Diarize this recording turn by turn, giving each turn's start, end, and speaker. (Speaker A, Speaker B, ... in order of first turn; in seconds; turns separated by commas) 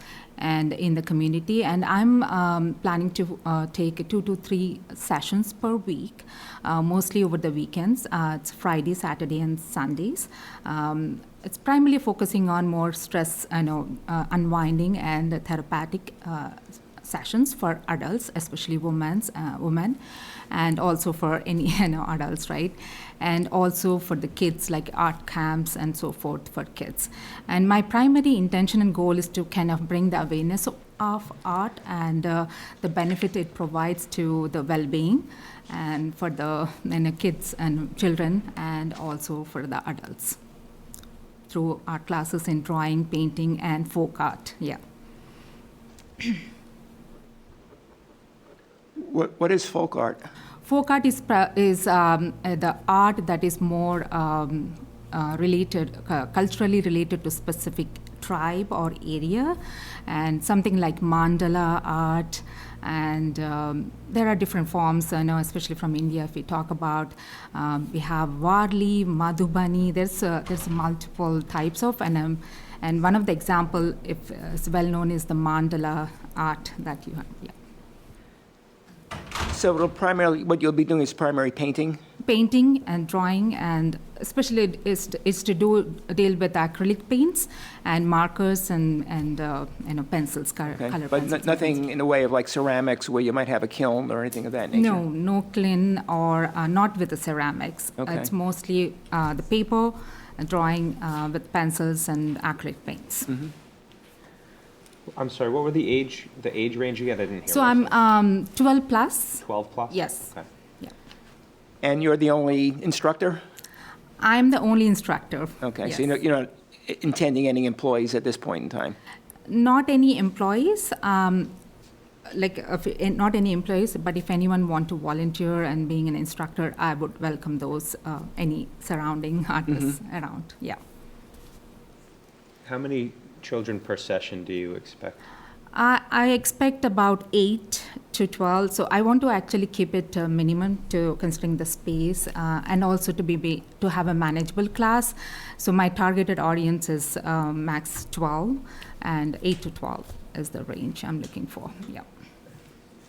Speaker A: 0.4-20.0, Speaker A: 20.5-40.4, Speaker A: 41.5-44.8, Speaker B: 49.0-50.3, Speaker A: 50.6-77.5, Speaker B: 79.5-82.0, Speaker A: 82.2-91.8, Speaker B: 90.8-95.0, Speaker A: 94.7-103.5, Speaker B: 98.0-98.3, Speaker C: 105.1-107.9, Speaker A: 107.5-110.3, Speaker C: 109.4-110.5, Speaker B: 111.8-113.4, Speaker A: 114.2-116.1, Speaker B: 115.6-119.0, Speaker A: 119.5-121.5, Speaker A: 122.3-130.8, Speaker C: 132.7-135.2, Speaker A: 135.7-152.1